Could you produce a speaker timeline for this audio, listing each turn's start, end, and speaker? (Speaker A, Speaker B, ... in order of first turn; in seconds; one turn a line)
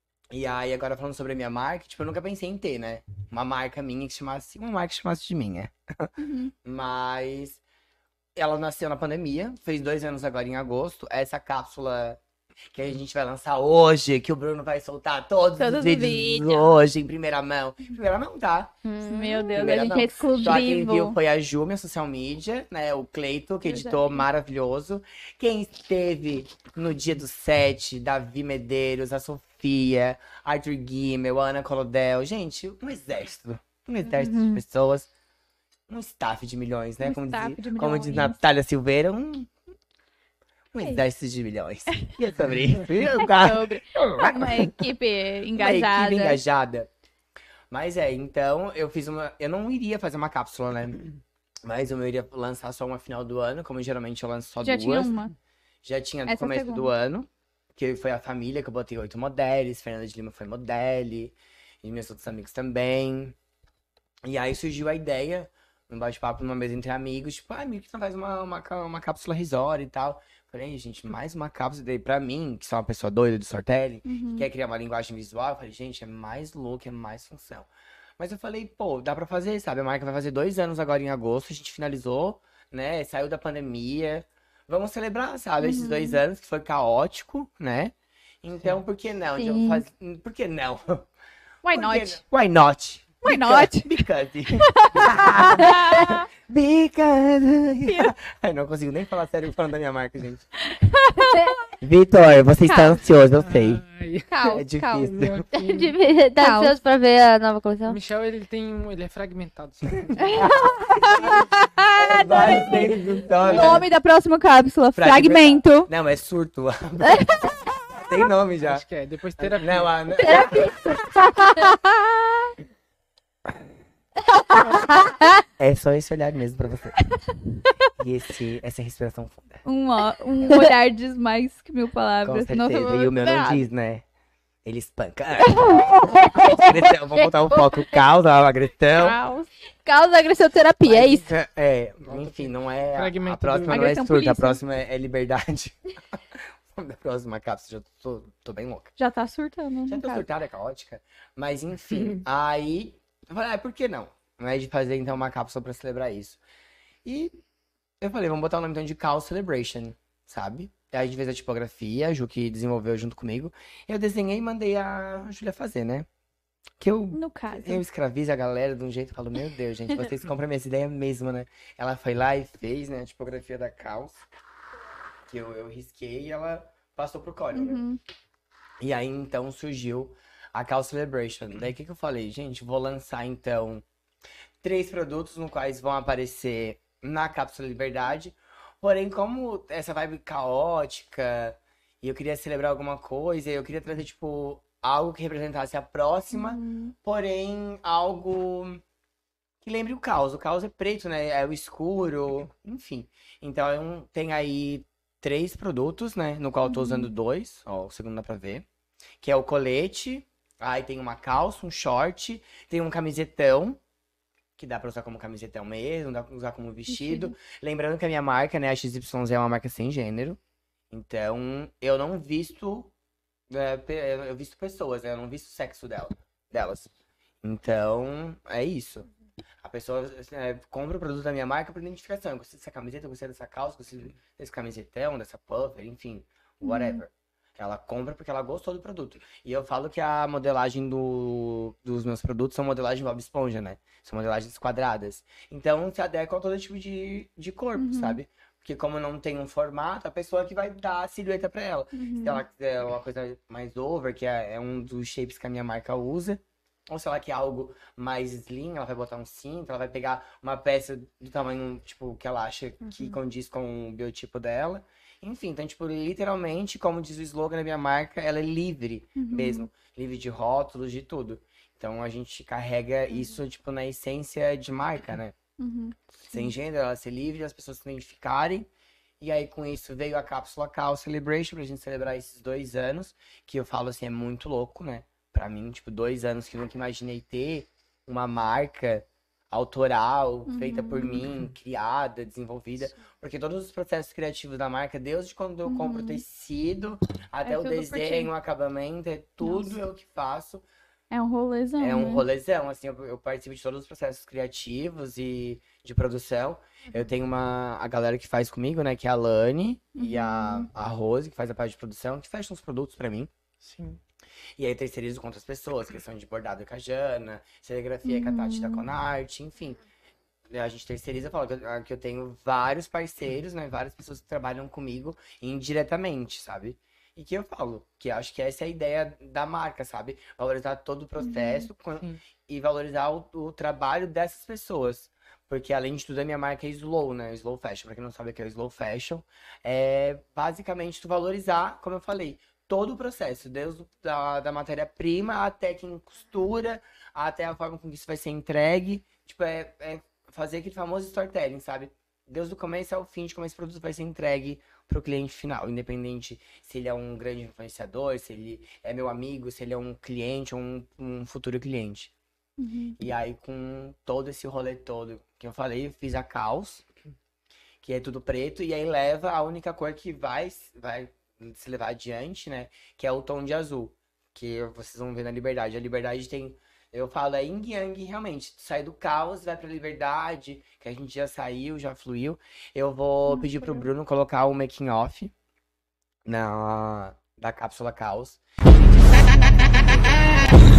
Speaker A: 0.3-6.1
Speaker B: 6.2-6.5
Speaker A: 6.6-7.6
Speaker A: 8.4-12.2
Speaker A: 12.7-18.8
Speaker B: 15.6-16.7
Speaker C: 18.8-20.3
Speaker B: 19.1-21.2
Speaker A: 19.5-35.1
Speaker B: 23.6-24.3
Speaker B: 34.0-34.6
Speaker A: 35.9-39.5
Speaker B: 37.0-38.4
Speaker A: 40.7-44.8
Speaker B: 43.2-46.4
Speaker A: 45.6-46.9
Speaker A: 47.7-51.1
Speaker A: 51.6-55.2
Speaker B: 54.6-55.3
Speaker A: 55.8-63.4
Speaker B: 56.3-56.9
Speaker A: 64.2-91.1
Speaker B: 74.0-74.5
Speaker B: 85.6-86.2
Speaker C: 89.4-89.8
Speaker B: 91.6-92.2
Speaker A: 91.7-100.5
Speaker B: 93.2-93.9
Speaker B: 94.7-96.2
Speaker B: 97.9-98.2
Speaker B: 100.6-101.4
Speaker A: 101.8-103.8
Speaker B: 102.7-103.0
Speaker D: 103.4-106.0
Speaker B: 104.3-105.0
Speaker A: 104.5-105.4
Speaker C: 105.6-108.0
Speaker B: 106.4-106.8
Speaker D: 107.9-110.4
Speaker B: 110.2-112.9
Speaker A: 110.3-113.9
Speaker B: 113.4-115.9
Speaker D: 113.5-113.8
Speaker A: 115.0-118.9
Speaker D: 118.6-120.0
Speaker A: 119.4-120.8
Speaker C: 120.2-121.7
Speaker B: 121.2-122.5
Speaker C: 124.5-125.2
Speaker A: 125.6-127.0
Speaker A: 128.0-129.6
Speaker B: 129.6-133.6
Speaker A: 132.2-134.1
Speaker A: 134.7-139.2
Speaker B: 135.5-136.4
Speaker C: 136.4-137.9
Speaker B: 138.9-139.5
Speaker C: 139.8-141.3
Speaker A: 140.8-148.9
Speaker D: 142.1-143.9
Speaker B: 143.7-144.6
Speaker B: 149.0-150.2
Speaker A: 149.9-156.4
Speaker A: 157.1-157.4
Speaker A: 158.0-166.1
Speaker A: 166.8-174.3
Speaker B: 167.1-167.8
Speaker A: 175.3-177.8
Speaker B: 177.5-178.0
Speaker A: 178.8-183.8
Speaker A: 184.6-198.8
Speaker B: 196.3-196.9
Speaker A: 199.6-208.7
Speaker B: 206.7-207.1
Speaker A: 209.2-213.8
Speaker A: 214.6-220.4
Speaker B: 216.9-217.3
Speaker A: 220.9-222.9
Speaker A: 223.5-229.1
Speaker A: 229.6-275.4
Speaker B: 236.6-237.0
Speaker B: 247.8-248.2
Speaker B: 251.9-252.4
Speaker B: 269.2-269.7
Speaker B: 275.6-276.5
Speaker A: 276.2-278.7
Speaker A: 279.2-300.6
Speaker B: 290.5-291.3
Speaker B: 295.7-296.2
Speaker B: 297.4-298.3
Speaker B: 299.4-299.8
Speaker B: 301.1-302.2
Speaker A: 301.8-313.3
Speaker B: 309.9-310.7
Speaker D: 313.6-314.0
Speaker A: 314.6-319.8
Speaker B: 318.1-318.9
Speaker A: 320.5-362.1
Speaker B: 331.2-331.7
Speaker B: 362.6-363.0
Speaker A: 363.0-366.9
Speaker A: 367.8-385.3
Speaker B: 383.3-383.9
Speaker A: 386.2-390.6